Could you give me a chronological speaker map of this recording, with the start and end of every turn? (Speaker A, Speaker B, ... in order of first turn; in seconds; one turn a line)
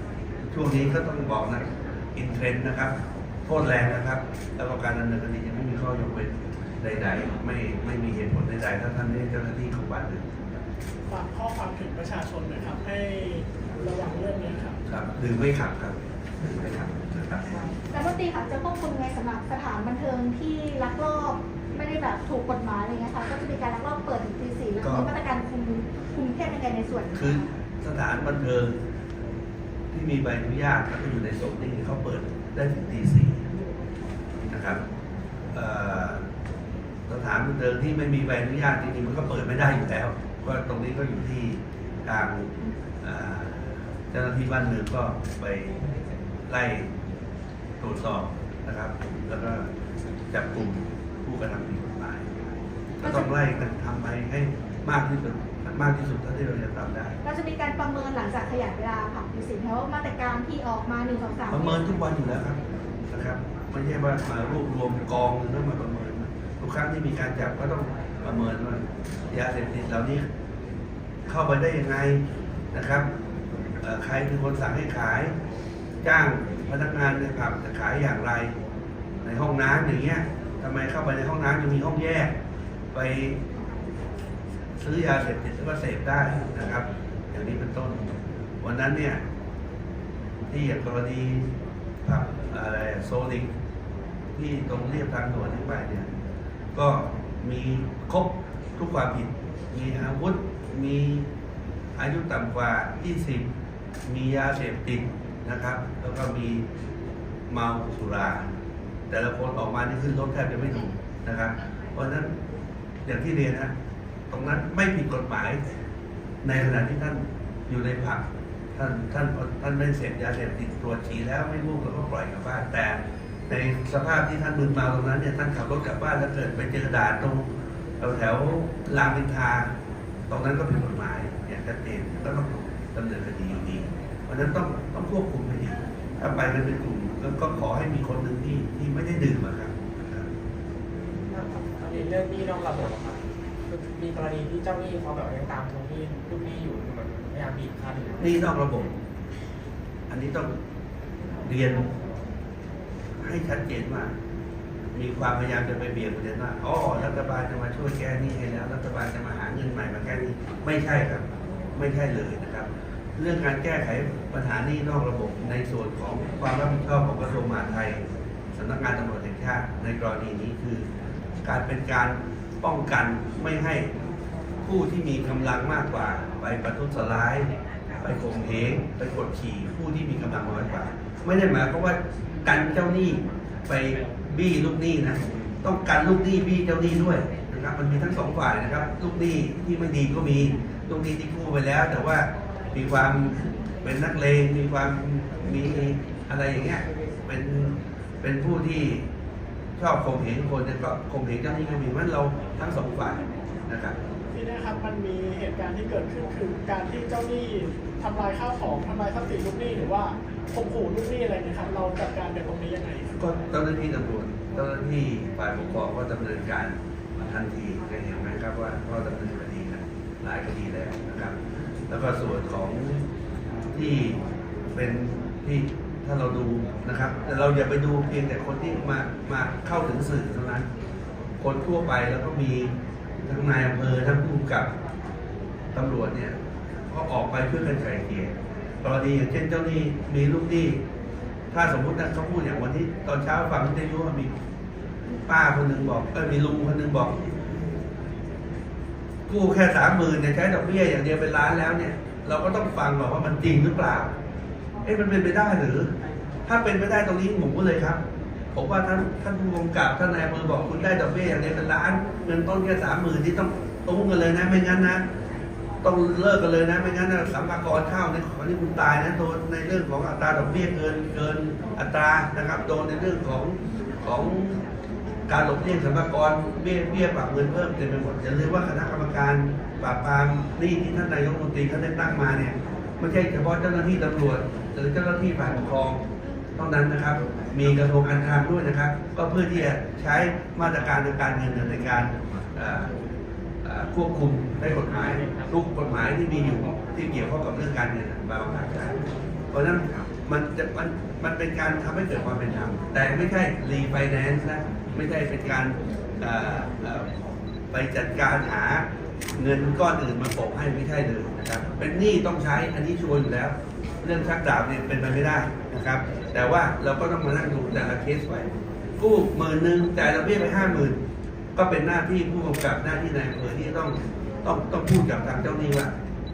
Speaker A: 0.5-3.0
Speaker A: 3.5-10.3
Speaker B: 11.1-14.8
Speaker A: 14.9-17.5
Speaker C: 17.9-27.4
Speaker A: 24.8-25.1
Speaker A: 27.1-28.8
Speaker A: 29.9-33.4
Speaker A: 34.5-34.8
Speaker A: 35.5-36.2
Speaker A: 37.1-45.8
Speaker A: 46.5-46.9
Speaker A: 47.8-49.7
Speaker A: 50.3-52.3
Speaker A: 53.0-57.2
Speaker C: 53.0-53.3
Speaker C: 57.2-61.9
Speaker A: 61.5-62.6
Speaker A: 63.1-70.2
Speaker A: 71.3-73.1
Speaker A: 73.8-75.3
Speaker A: 76.0-78.5
Speaker A: 79.2-82.3
Speaker A: 82.9-83.4
Speaker A: 84.8-89.2
Speaker A: 90.5-91.5
Speaker A: 92.0-93.5
Speaker A: 94.3-96.1
Speaker A: 96.7-101.3
Speaker A: 102.0-103.5
Speaker A: 104.1-106.7
Speaker A: 107.5-108.5
Speaker A: 109.1-112.3
Speaker A: 113.0-113.7
Speaker A: 114.3-115.6
Speaker A: 116.4-118.2
Speaker A: 118.8-127.5
Speaker A: 128.0-129.7
Speaker A: 130.3-140.3
Speaker D: 141.3-148.4
Speaker A: 148.2-149.0
Speaker A: 150.1-150.5
Speaker A: 151.4-151.9
Speaker A: 153.2-154.1
Speaker A: 154.9-168.0
Speaker A: 168.6-170.9
Speaker A: 171.4-173.9
Speaker A: 174.6-199.1
Speaker A: 199.8-204.0
Speaker B: 204.3-213.1
Speaker A: 213.2-221.4
Speaker A: 221.9-223.0
Speaker A: 223.7-224.2
Speaker A: 224.8-230.7
Speaker A: 231.4-232.7
Speaker A: 233.2-234.7
Speaker A: 235.7-236.4
Speaker A: 236.9-240.8
Speaker A: 241.5-244.3
Speaker A: 245.3-247.2
Speaker A: 249.3-254.1
Speaker A: 254.8-255.9
Speaker A: 256.5-258.0
Speaker A: 258.5-265.0
Speaker A: 265.8-274.6
Speaker A: 275.3-286.0
Speaker A: 286.6-292.9
Speaker A: 293.6-307.1
Speaker D: 294.9-295.4
Speaker A: 307.7-308.9
Speaker A: 309.4-321.0
Speaker A: 321.6-325.9